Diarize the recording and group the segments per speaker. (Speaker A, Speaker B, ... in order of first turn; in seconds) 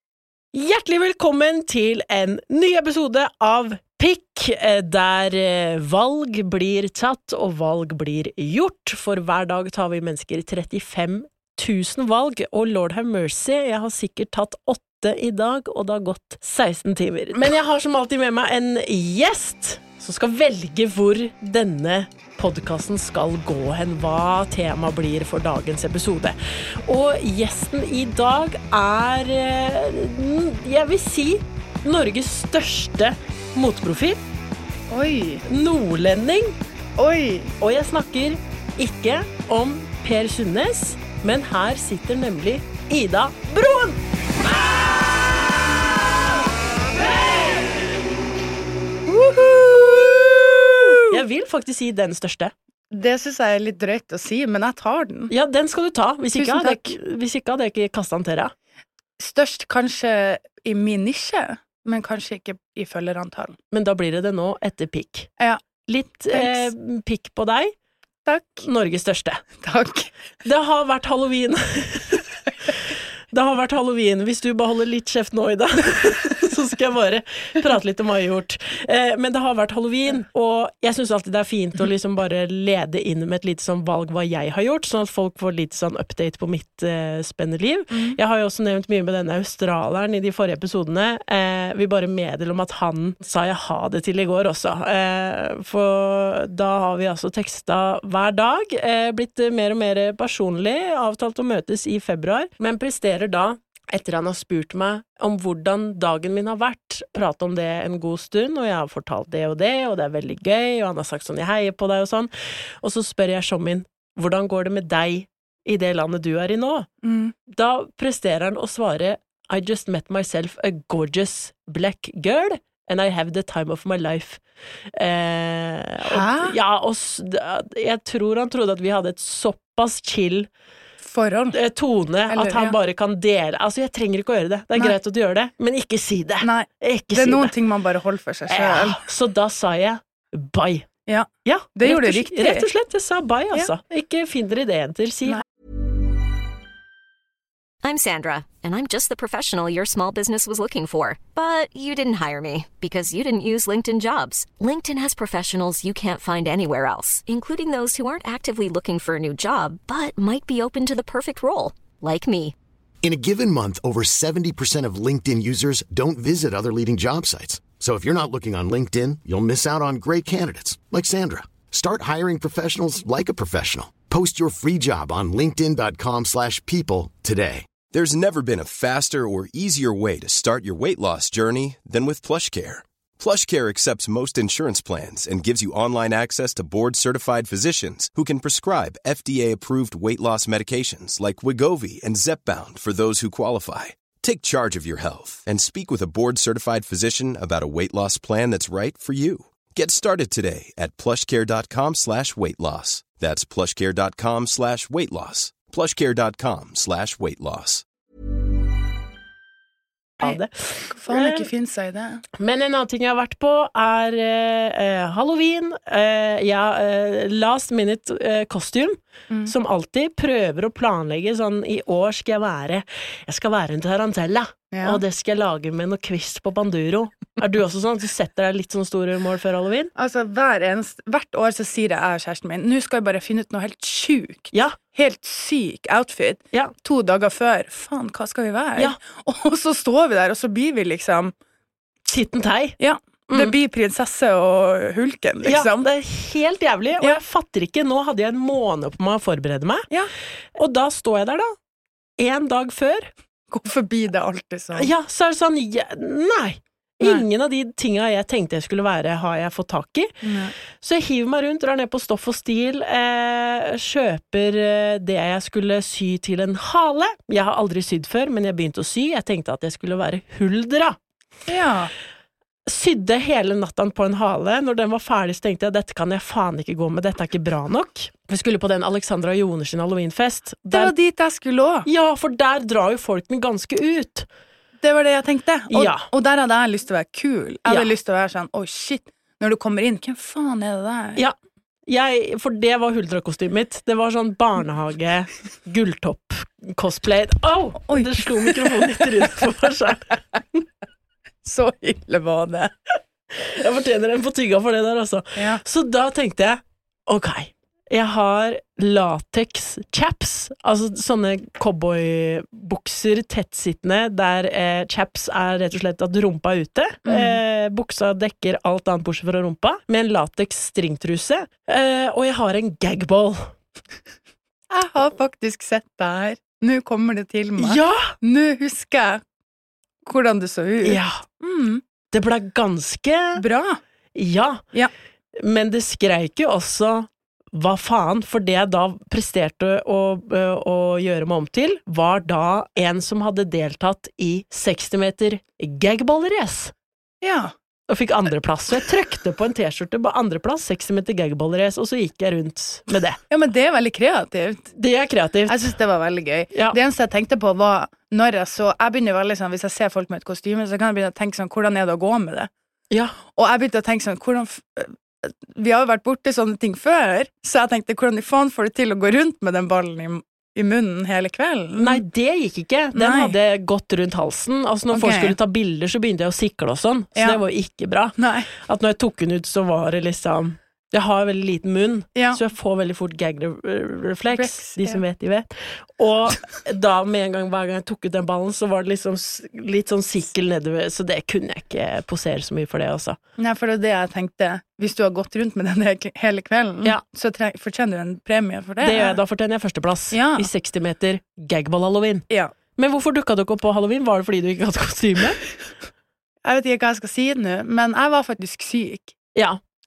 Speaker A: 0.5-34.2, 35.5-36.5, 37.6-44.0, 51.1-52.5, 55.3-58.5, 63.7-65.3, 65.9-67.7, 68.6-69.4, 70.5-72.2, 73.3-116.9, 117.5-124.4, 124.9-130.5, 131.5-137.5, 138.5-140.9, 141.4-145.4, 210.2-211.5, 212.4-229.9, 234.5-234.8, 242.1-242.8, 245.4-249.9, 250.6-251.5, 252.2-253.1, 254.8-260.1, 260.8-271.0, 272.7-280.9, 281.9-284.3, 285.7-286.1, 291.9-300.2, 303.3-323.5, 327.6-328.1, 330.8-331.2, 332.1-333.4, 334.1-334.6, 335.4-346.7, 347.9-353.2, 354.8-355.7, 362.9-363.2, 371.8-393.2, 398.8-405.4, 409.4-409.6
Speaker B: 34.9-35.4, 37.0-37.5, 49.1-51.1, 52.9-55.3, 56.4-57.0, 59.2-63.6, 66.3-66.7, 68.3-68.7, 69.6-70.1, 87.9-88.2, 117.0-117.3, 126.0-126.6, 131.0-131.6, 132.3-132.8, 136.4-139.0, 141.1-142.7, 210.2-212.2, 224.7-225.0, 230.0-241.3, 242.8-245.9, 253.5-254.9, 260.2-260.5, 271.5-271.9, 280.7-281.9, 284.8-291.2, 297.9-299.3, 301.4-302.7, 317.1-317.4, 324.7-329.2, 330.1-331.8, 333.4-333.8, 347.2-347.5, 353.3-354.7, 355.5-362.5, 363.3-372.0, 372.9-373.4, 374.9-375.4, 377.2-377.4, 378.2-378.5, 384.3-385.0, 393.4-399.2, 400.1-400.5, 406.4-409.1
Speaker C: 147.8-162.6
Speaker D: 163.0-177.7
Speaker E: 177.9-207.8